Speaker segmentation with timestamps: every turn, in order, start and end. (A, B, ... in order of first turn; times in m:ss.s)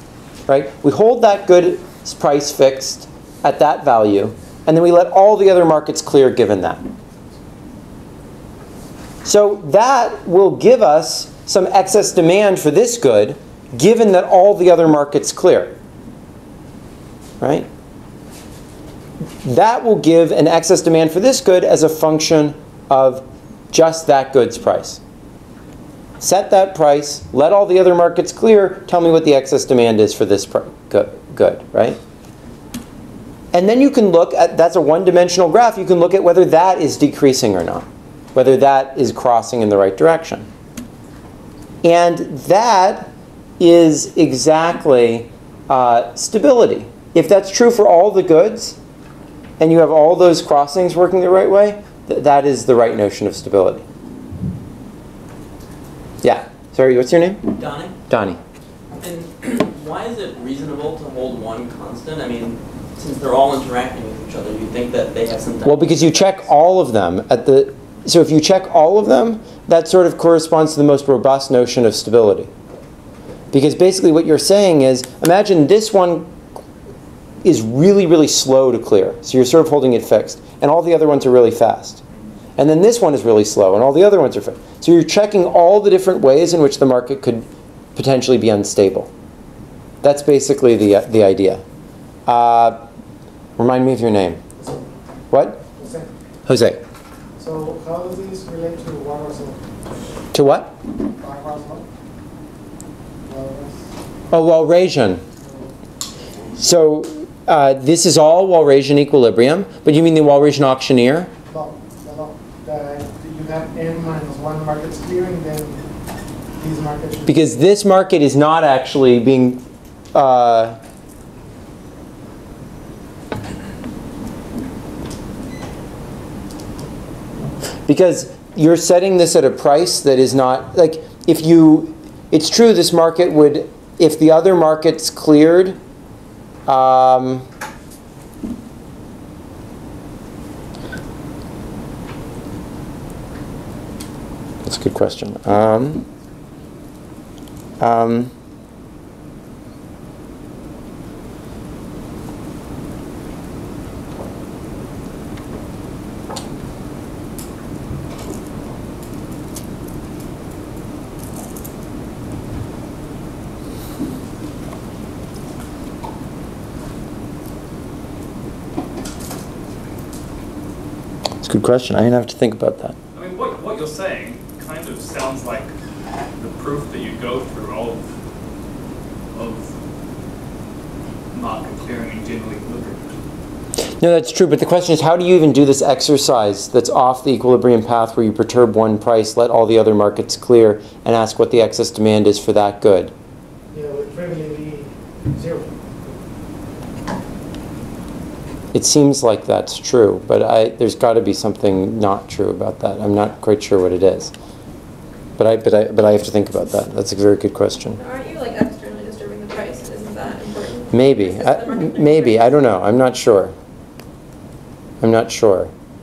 0:00.5-0:06.8 A
0:09.2-0:15.7 A
0:17.4-0:17.7 A
0:19.4-0:25.0 A
0:26.2-0:32.0 A
0:33.5-0:40.4 A
0:41.8-0:48.8 A
0:49.6-0:53.8 A
0:56.2-0:57.5 A
0:57.5-0:58.0 B
0:58.1-0:58.4 A
0:59.0-1:06.4 B
1:05.6-1:12.5 A
1:13.5-1:16.3 A
1:17.4-1:22.0 A
1:22.6-1:27.4 A
1:28.0-1:29.1 A
1:30.0-1:31.6 A
1:32.3-1:32.8 A
1:33.6-1:34.4 A
1:34.6-1:34.8 C
1:35.3-1:35.6 A
1:35.8-1:36.1 C
1:36.4-1:36.8 A
1:37.4-1:39.7 C
1:40.3-1:40.7 A
1:41.2-1:41.9 C
1:43.2-1:43.9 C
1:44.3-1:45.2 A
1:46.6-1:51.3 A
1:51.5-1:55.8 C
1:56.6-1:57.6 C
1:57.3-1:59.6 A
2:00.1-2:00.8 A
2:07.9-2:15.8 A
2:16.7-2:17.4 A
2:24.6-2:26.0 A
2:27.8-2:28.3 A
2:51.4-2:53.0 A
2:53.1-2:55.7 D
2:56.4-2:58.0 D
2:59.3-2:59.7 D
3:01.3-3:03.2 D
3:04.0-3:13.1 A
3:13.7-3:15.8 C
3:18.7-3:24.3 A
3:25.4-3:28.0 A
3:28.0-3:32.6 E
3:30.9-3:33.5 A
3:35.0-3:35.7 A